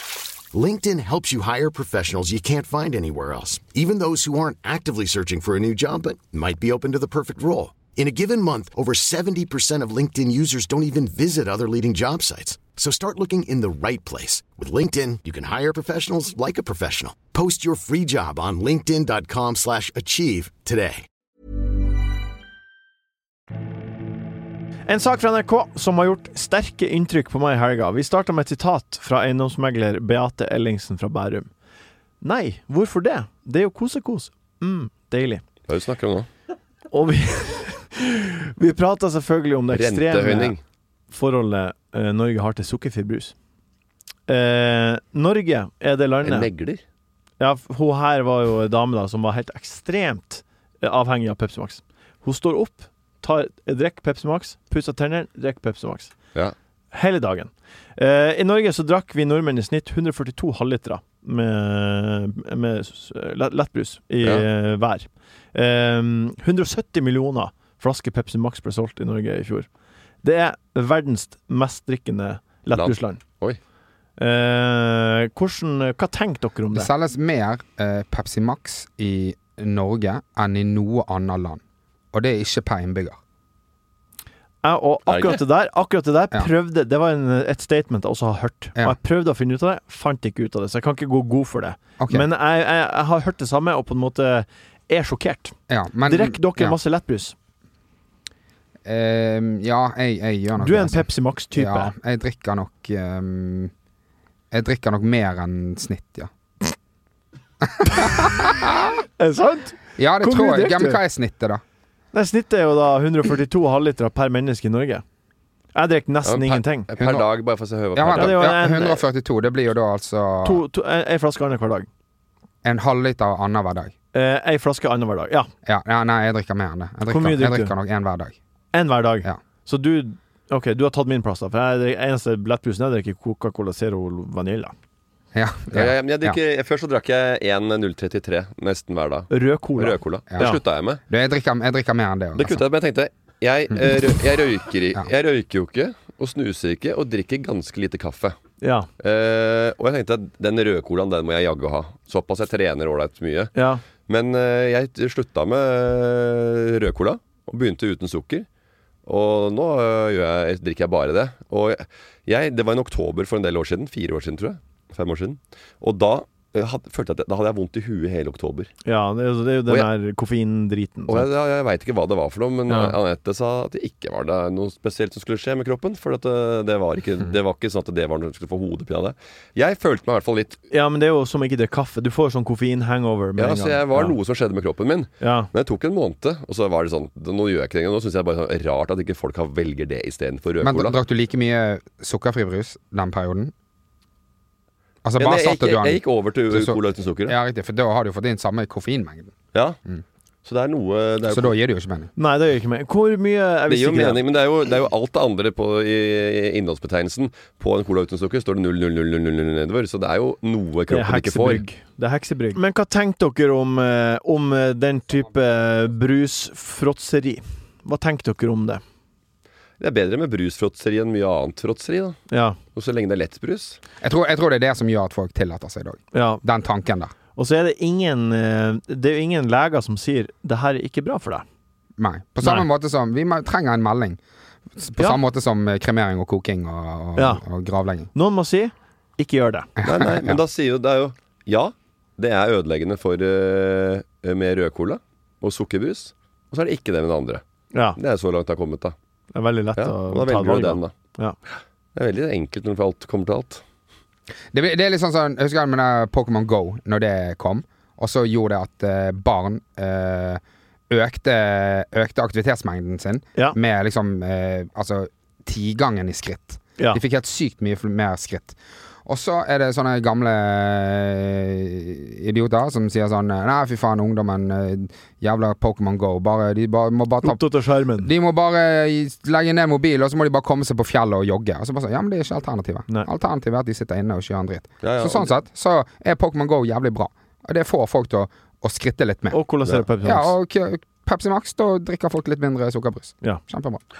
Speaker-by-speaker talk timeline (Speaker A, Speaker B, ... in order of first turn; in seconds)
Speaker A: 0.5-21.1
Speaker B: 24.9-31.5, 32.2-35.4, 36.9-40.5, 41.1-43.3, 44.3-46.5, 47.4-56.1, 56.9-69.7, 70.2-73.2, 74.2-76.9, 84.6-97.3, 100.6-101.9, 109.2-111.0, 112.1-115.0, 115.7-116.9, 118.1-119.0, 120.4-121.9, 124.1-125.5, 127.1-127.7, 128.7-134.7, 139.3-140.6, 148.6-148.9, 153.6-153.8, 168.8-171.3, 172.7-173.0, 180.7-184.2, 185.2-185.5, 202.2-204.2, 210.9-218.8, 222.3-222.6, 226.1-226.4, 227.4-231.4, 237.2-237.4, 238.1-239.7, 247.7-248.0, 249.3-251.4, 277.2-278.1, 289.3-290.4
Speaker C: 35.7-36.3, 39.7-40.6, 46.2-46.8, 72.7-73.6, 85.1-85.4, 116.2-118.7, 135.7-141.0, 142.3-148.4, 149.0-153.5, 154.1-158.5, 159.1-168.7, 171.1-180.6, 183.4-191.0, 195.2-197.4, 199.5-199.8, 200.4-201.5, 203.7-211.6, 219.8-222.2, 222.7-223.8, 239.8-247.4, 248.0-248.9, 249.8-250.9, 251.9-253.6, 284.8-285.3
Speaker D: 76.7-81.6, 82.1-83.2, 92.0-92.3, 95.7-96.8, 98.9-103.7, 104.5-106.3, 107.6-108.9, 110.0-111.6, 117.0-117.3, 118.0-120.6, 122.6-123.9, 125.7-128.4, 135.3-136.4, 140.3-142.6, 190.6-193.5, 195.1-199.3, 201.3-202.1, 224.0-227.1, 232.0-234.2, 234.8-238.1, 239.8-240.4, 254.5-277.4, 278.0-289.4, 290.0-293.8